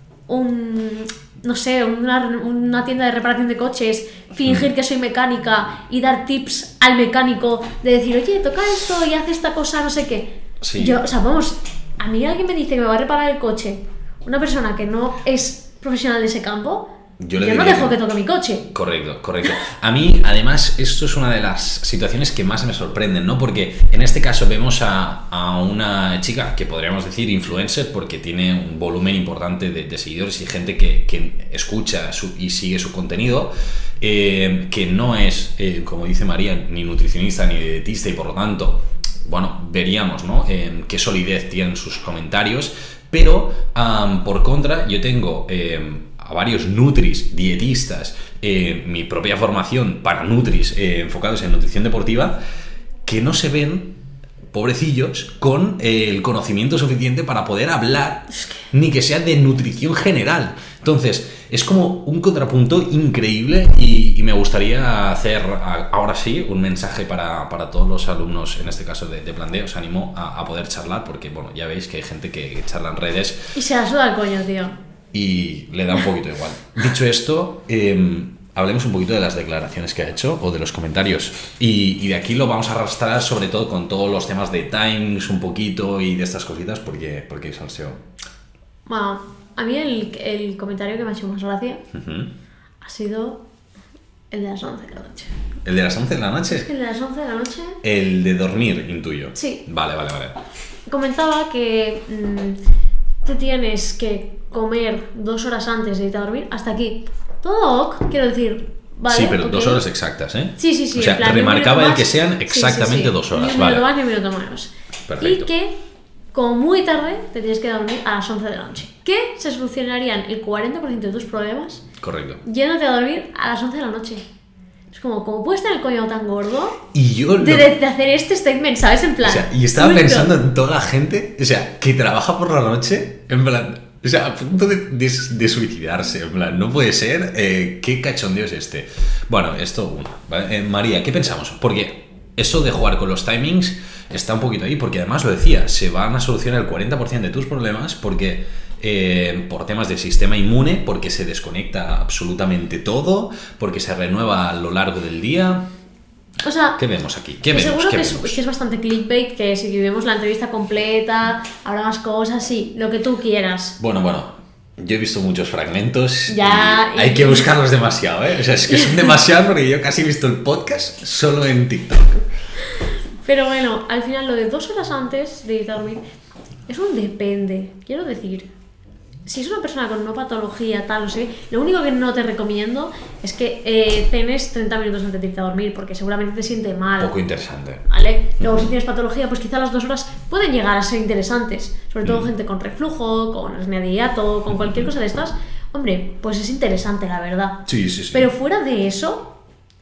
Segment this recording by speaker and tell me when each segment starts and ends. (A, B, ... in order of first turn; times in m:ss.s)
0:00.3-0:18.7 A
0:10.6-0:11.0 B
0:17.2-0:18.0 B
0:18.7-0:52.4 B
0:53.1-0:53.9 B
0:54.5-1:13.5 B
1:13.5-1:14.8 A
1:15.1-1:28.0 B
1:28.9-1:31.8 A
1:31.9-1:32.3 B
1:32.8-1:33.4 A
1:34.3-1:35.3 A
1:35.6-1:36.7 B
1:36.5-1:37.8 A
1:37.8-1:40.4 B
1:39.4-1:39.6 A
1:40.9-1:42.6 A
1:43.2-1:49.8 A
1:49.1-1:53.9 B
1:50.6-1:55.8 A
1:55.1-1:55.5 B
1:56.3-2:01.8 A
2:02.0-2:02.4 B
2:02.4-2:04.2 A
2:04.9-2:06.8 A
2:06.9-2:07.7 B
2:07.4-2:10.3 A
2:09.2-2:35.6 B
2:36.4-2:36.8 A
2:36.8-2:38.4 B
2:37.5-2:43.8 A
2:43.8-2:52.2 B
2:46.3-2:47.5 A
2:53.2-2:56.0 A
2:56.7-2:58.5 A
2:59.3-3:07.1 A
3:07.0-3:07.8 B
3:07.9-3:19.3 A
3:08.4-3:08.7 B
3:12.0-3:12.3 B
3:14.6-3:14.9 B
3:17.7-3:18.3 B